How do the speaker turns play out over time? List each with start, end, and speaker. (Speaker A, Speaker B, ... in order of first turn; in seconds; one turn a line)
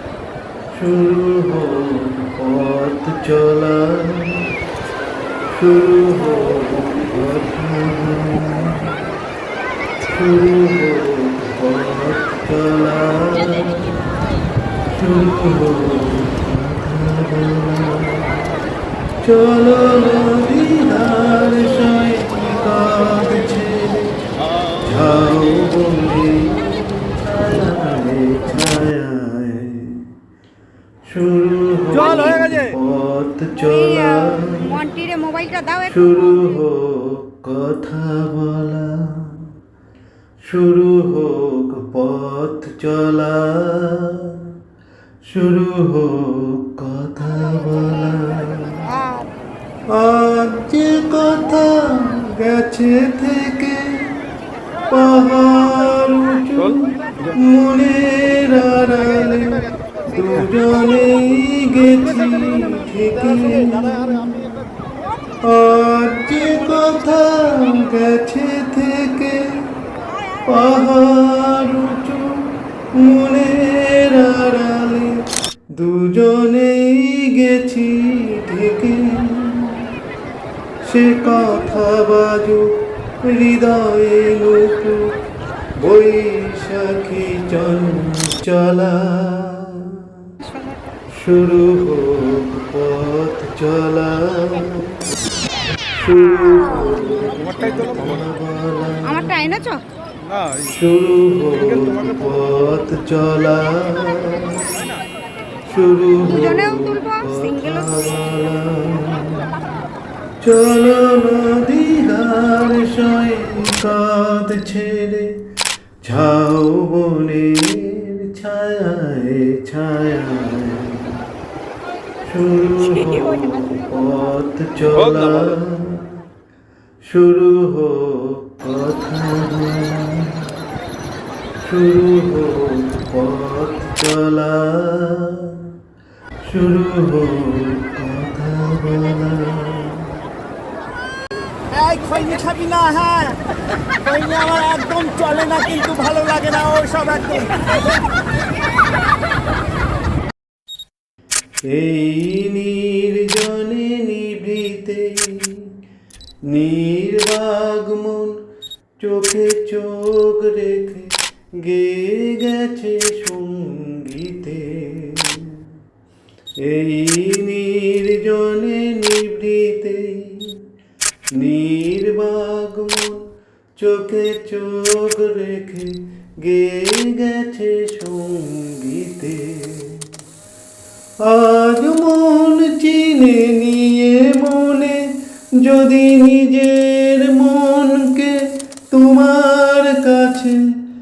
Speaker A: 0.7-4.6
Speaker A: 5.5-9.1
Speaker A: 10.0-14.1
Speaker A: 14.9-18.6
Speaker A: 19.2-24.2
Speaker A: 24.8-30.1
Speaker A: 31.0-34.8
Speaker B: 34.2-35.8
Speaker A: 35.8-39.5
Speaker A: 40.4-44.5
Speaker A: 45.2-48.9
Speaker A: 49.9-54.2
Speaker A: 54.9-64.7
Speaker A: 65.4-69.7
Speaker A: 70.4-79.9
Speaker A: 80.8-85.2
Speaker A: 85.8-90.1
Speaker B: 90.5-90.8
Speaker A: 91.1-95.0
Speaker A: 96.0-99.7
Speaker B: 99.1-99.8
Speaker A: 100.6-104.7
Speaker A: 105.7-109.8
Speaker B: 106.4-107.5
Speaker A: 110.4-115.5
Speaker A: 116.0-121.2
Speaker A: 122.2-126.2
Speaker A: 127.0-130.6
Speaker A: 131.6-135.8
Speaker A: 136.4-140.2
Speaker C: 141.7-143.4
Speaker C: 144.0-147.6
Speaker A: 151.7-155.8
Speaker A: 156.5-158.4
Speaker A: 159.0-165.7
Speaker A: 166.6-170.6
Speaker A: 171.3-180.1
Speaker A: 181.2-190.6